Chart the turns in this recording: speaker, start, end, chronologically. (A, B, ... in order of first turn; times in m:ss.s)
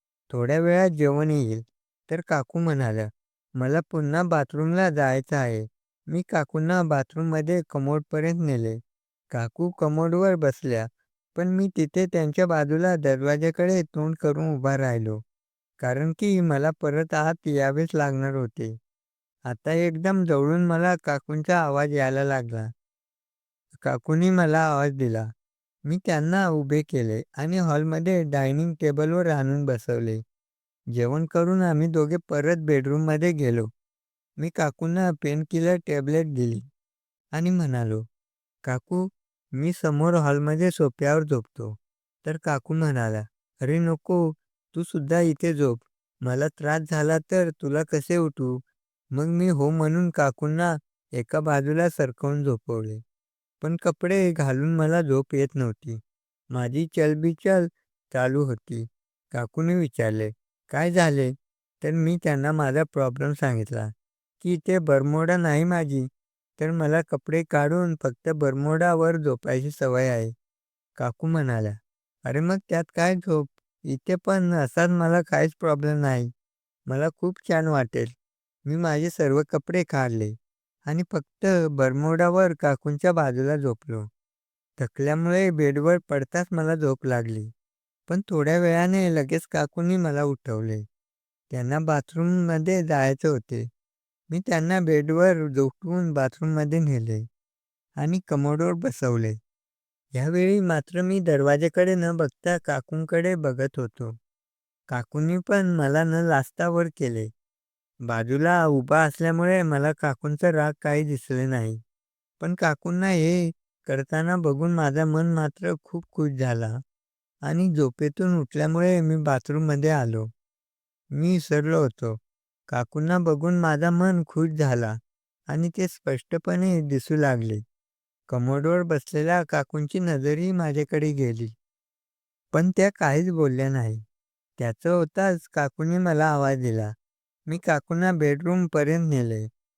0:00.3-0:08.8 A
0:09.3-0:15.2 A
0:15.8-0:18.7 A
0:19.5-0:22.7 A
0:23.8-0:25.3 A
0:25.9-0:30.2 A
0:30.9-0:33.7 A
0:34.4-0:36.6 A
0:37.3-0:38.0 A
0:38.6-0:48.6 A
0:49.1-0:53.0 A
0:53.6-0:56.0 A
0:56.5-1:06.1 A
1:06.6-1:10.3 A
1:11.0-1:16.3 A
1:16.9-1:18.1 A
1:18.7-1:20.3 A
1:20.9-1:24.1 A
1:24.8-1:27.5 A
1:28.1-1:30.8 A
1:31.5-1:33.7 A
1:34.3-1:37.2 A
1:38.0-1:39.4 A
1:40.1-1:44.1 A
1:44.9-1:47.3 A
1:48.1-1:51.8 A
1:52.4-1:56.8 A
1:57.4-2:00.3 A
2:01.1-2:02.2 A
2:02.7-2:05.0 A
2:05.5-2:07.6 A
2:08.3-2:11.5 A
2:12.5-2:14.0 A
2:14.6-2:16.9 A
2:17.5-2:19.5 A